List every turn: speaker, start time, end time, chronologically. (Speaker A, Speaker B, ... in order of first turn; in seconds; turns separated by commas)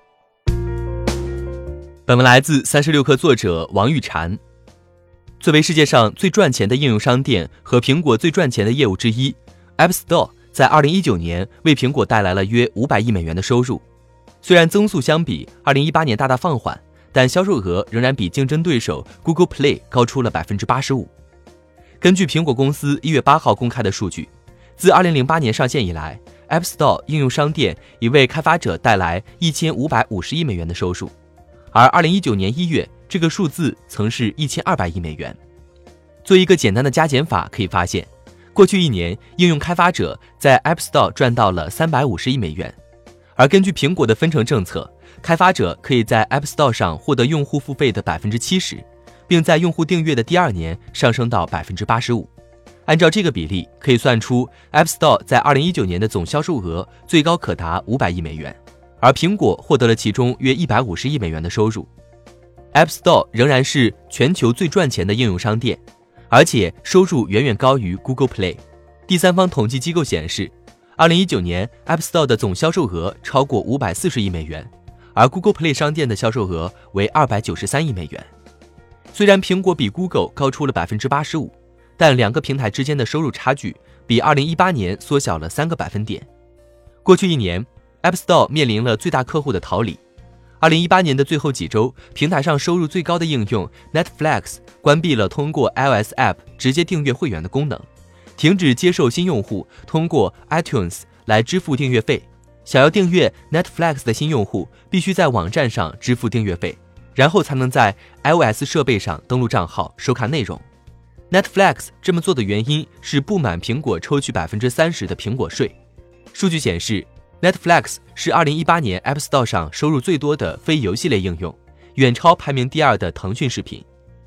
Speaker A: 2.1-4.4, Speaker A: 5.4-13.8, Speaker A: 14.4-21.1, Speaker A: 22.0-31.1, Speaker A: 31.7-35.4, Speaker A: 36.2-42.8, Speaker A: 43.4-52.3, Speaker A: 52.9-61.9, Speaker A: 62.7-78.3, Speaker A: 79.1-86.3, Speaker A: 87.0-90.0, Speaker A: 90.6-97.9, Speaker A: 98.4-110.6, Speaker A: 111.3-115.7, Speaker A: 116.3-123.8